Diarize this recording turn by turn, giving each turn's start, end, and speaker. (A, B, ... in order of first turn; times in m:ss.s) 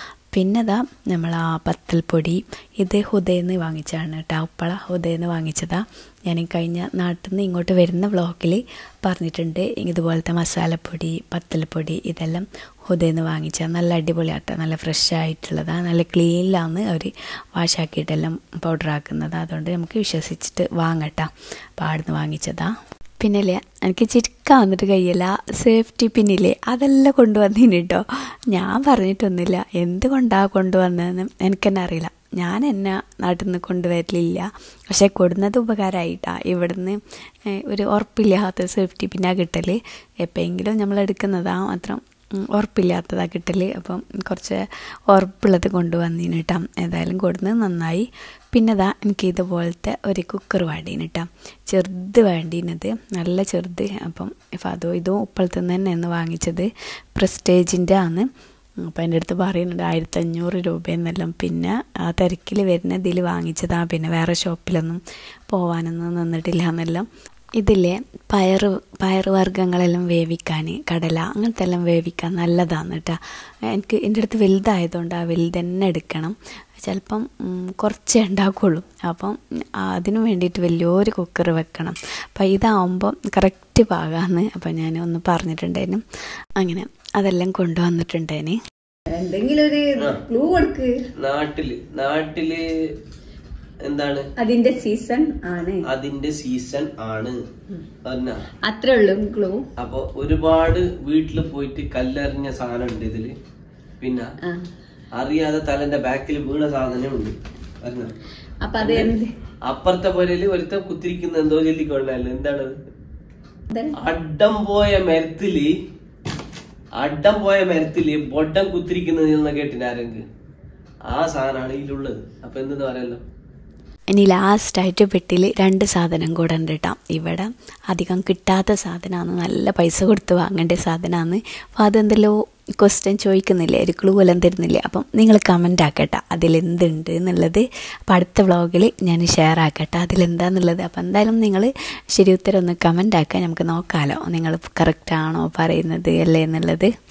0:00.3-0:37.0 A
0:37.5-0:58.3 A
0:58.9-1:07.0 A
1:07.6-1:13.2 A
1:13.7-1:26.0 A
1:26.6-1:28.6 A
1:29.1-1:30.9 B
1:31.2-1:32.6 C
1:33.8-1:34.2 C
1:34.4-1:35.8 B
1:35.9-1:37.4 C
1:38.0-1:38.4 C
1:38.6-1:39.6 B
1:39.8-1:43.3 C
1:44.0-1:44.3 C
1:45.2-1:48.1 C
1:48.6-1:49.3 B
1:48.8-1:49.1 C
1:49.7-1:52.8 C
1:54.0-1:55.7 C
1:57.0-2:00.2 C
2:01.1-2:03.2 C
2:04.1-2:26.9 A